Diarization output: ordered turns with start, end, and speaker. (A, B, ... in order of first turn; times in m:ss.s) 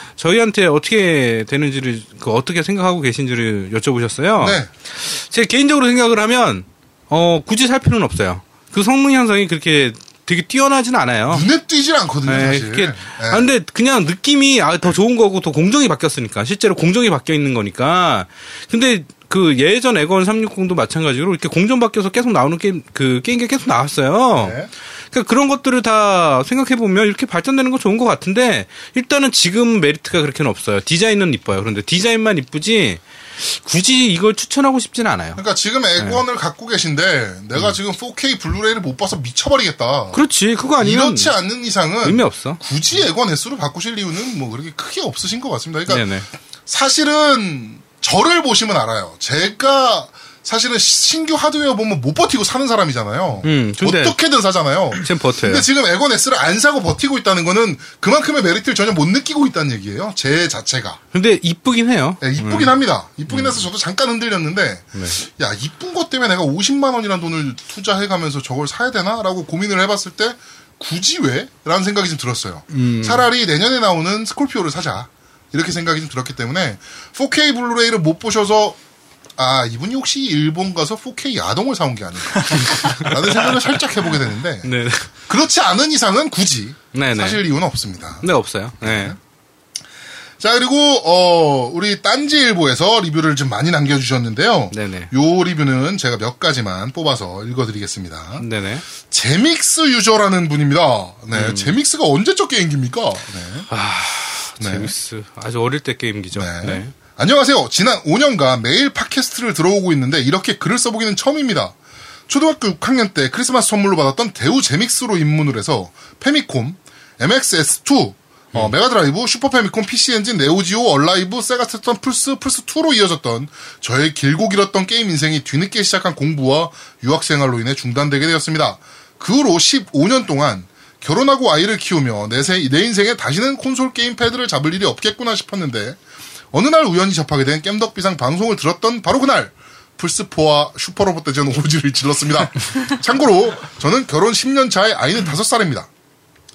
0:00.2-0:11.5 A
0:04.4-0:04.7 B
0:11.3-0:13.5 B
0:12.3-0:35.4 A
0:24.4-0:24.7 B
0:35.4-0:40.2 B
0:40.1-0:41.4 A
0:40.8-0:46.1 B
0:42.0-0:42.6 A
0:45.9-0:46.3 A
0:46.7-1:01.0 B
0:53.4-0:54.2 A
0:55.0-0:55.7 A
1:01.1-1:02.7 A
1:02.2-1:18.8 B
1:03.3-1:03.7 A
1:12.7-1:13.3 A
1:19.4-1:28.3 B
1:22.5-1:23.6 A
1:24.6-1:25.1 A
1:26.9-1:27.4 A
1:28.2-1:29.2 A
1:28.8-1:29.2 B
1:30.4-1:38.5 B
1:34.7-1:35.1 A
1:38.4-1:38.8 A
1:39.0-1:43.7 B
1:41.3-1:41.8 A
1:43.7-1:46.9 A
1:44.6-1:44.9 B
1:46.4-1:51.8 B
1:52.3-2:16.0 B
2:16.5-2:25.9 B